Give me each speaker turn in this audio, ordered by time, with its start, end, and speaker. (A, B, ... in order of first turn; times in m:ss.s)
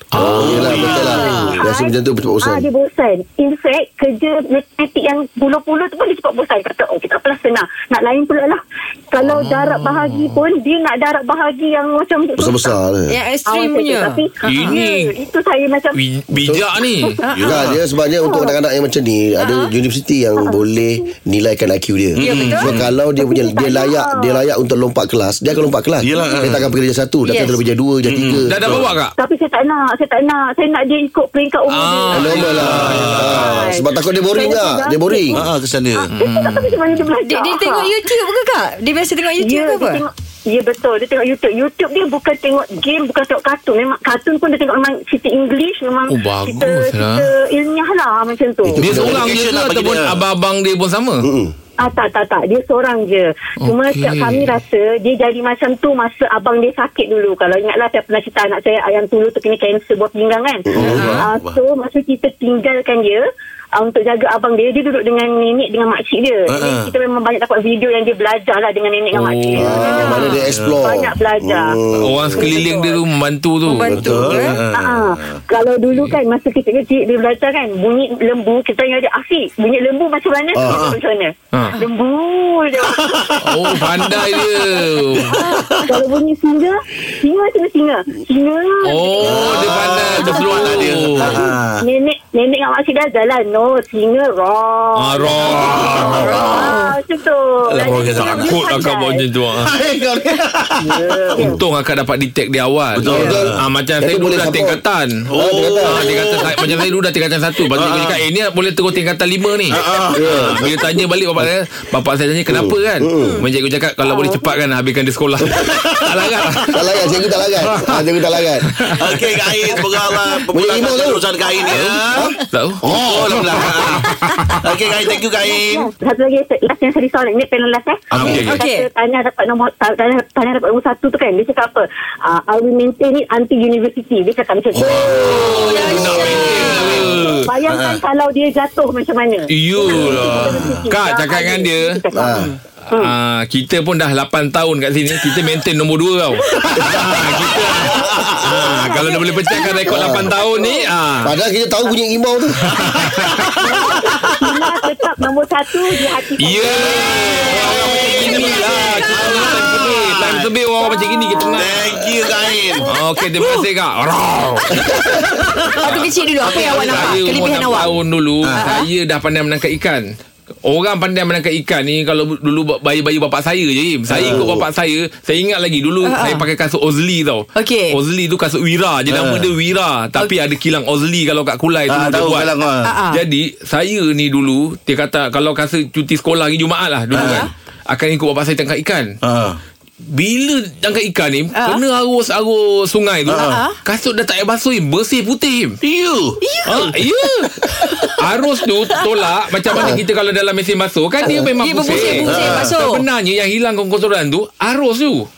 0:00.1-0:00.9 A
0:00.1-0:02.6 B
0:00.2-0:01.6 C
0:00.8-0:01.6 D
0:00.9-0:12.8 E
0:09.2-0:10.4 A
0:12.4-0:13.1 B
0:13.1-0:14.8 D
0:13.4-0:16.0 E
0:14.4-0:15.1 A
0:15.9-0:17.2 A
0:16.3-0:16.6 B
0:16.9-0:17.2 E
0:17.2-0:17.6 D
0:17.3-0:17.8 C
0:17.4-0:28.8 B
0:18.2-0:18.5 E
0:19.4-0:19.7 D
0:20.4-0:21.0 E
0:22.2-0:22.9 C
0:22.2-0:22.7 D
0:23.2-0:24.4 E
0:26.0-0:26.7 C
0:27.2-0:27.6 D
0:28.0-0:28.9 C
0:28.4-0:29.1 A
0:29.2-0:32.6 E
0:31.7-0:33.5 A
0:32.1-0:35.4 B
0:32.6-0:33.4 C
0:33.3-0:35.4 E
0:35.3-0:36.1 C
0:36.1-0:37.9 E
0:36.1-0:36.9 A
0:37.2-0:40.0 D
0:39.4-0:48.8 E
0:46.1-0:47.3 A
0:48.6-0:49.3 B
0:48.8-0:51.3 A
0:48.8-0:50.2 C
0:51.2-0:51.5 B
0:51.8-1:03.2 E
0:53.6-0:54.5 A
1:00.7-1:01.2 B
1:00.8-1:01.6 C
1:00.9-1:01.2 D
1:03.8-1:11.8 E
1:06.5-1:06.9 C
1:09.1-1:10.1 A
1:09.6-1:12.5 B
1:09.7-1:10.4 D
1:10.5-1:10.8 C
1:12.0-1:14.0 A
1:12.3-1:13.0 E
1:13.6-1:14.6 D
1:13.9-1:14.6 B
1:13.9-1:15.4 C
1:14.7-1:23.8 E
1:20.5-1:20.9 B
1:20.6-1:21.0 C
1:21.5-1:21.8 A
1:22.9-1:24.1 C
1:23.4-1:25.4 A
1:25.2-1:25.9 C
1:25.8-1:29.6 E
1:28.8-1:31.4 A
1:29.2-1:31.8 C
1:30.1-1:39.2 E
1:35.0-1:36.5 A
1:35.6-1:36.6 C
1:36.1-1:37.0 D
1:37.7-1:38.6 C
1:38.2-1:39.8 A
1:39.6-1:41.6 C
1:40.8-1:41.6 E
1:41.4-1:45.2 A
1:43.0-1:43.6 C
1:43.0-1:44.8 B
1:45.3-1:46.8 C
1:45.3-1:46.0 B
1:45.8-2:00.2 A
1:47.7-1:48.2 C
1:49.6-1:50.7 C
1:50.1-1:51.5 B
1:52.5-1:53.4 B
1:53.2-1:53.4 D
1:55.6-1:56.7 C
1:56.7-1:58.7 B
1:58.9-2:04.1 C
2:00.5-2:01.3 B
2:01.6-2:04.6 A
2:04.1-2:04.6 D
2:04.6-2:05.9 C
2:05.4-2:23.1 E
2:08.1-2:08.4 C
2:08.1-2:08.6 A
2:08.3-2:08.9 D
2:14.7-2:18.0 C
2:15.2-2:17.5 A
2:15.3-2:17.0 D
2:19.5-2:22.0 A
2:19.8-2:20.8 C
2:22.1-2:22.5 B
2:22.9-2:31.4 A
2:26.7-2:27.5 B
2:26.8-2:28.7 C
2:28.7-2:29.8 E
2:29.8-2:30.7 B
2:31.2-2:33.0 B
2:32.6-2:33.5 A
2:32.7-2:33.9 C
2:33.6-2:37.3 E
2:36.4-2:42.0 A
2:36.7-2:40.5 C
2:37.0-2:39.9 D
2:40.9-2:41.6 E
2:41.5-2:42.9 C
2:42.8-2:45.1 A
2:43.3-2:43.6 D
2:44.7-2:47.9 C
2:45.8-2:47.9 D
2:45.8-2:50.0 A
2:48.5-2:48.9 D
2:50.6-3:02.5 A
2:54.1-2:54.5 C
2:54.2-2:54.6 B
2:56.0-2:56.5 D
2:57.5-2:58.0 D
2:59.1-2:59.5 C
3:01.9-3:02.9 C
3:02.8-3:03.2 D
3:03.1-3:09.1 A
3:07.1-3:07.5 C
3:07.1-3:07.5 D
3:09.2-3:09.6 C
3:10.1-3:15.8 A
3:11.5-3:11.8 D
3:13.2-3:13.6 C
3:13.3-3:13.8 D
3:15.8-3:16.4 C
3:16.4-3:19.2 D
3:16.6-3:25.3 A
3:19.7-3:20.0 D
3:19.7-3:20.0 B
3:21.2-3:21.5 B
3:21.2-3:23.0 D
3:22.0-3:22.7 C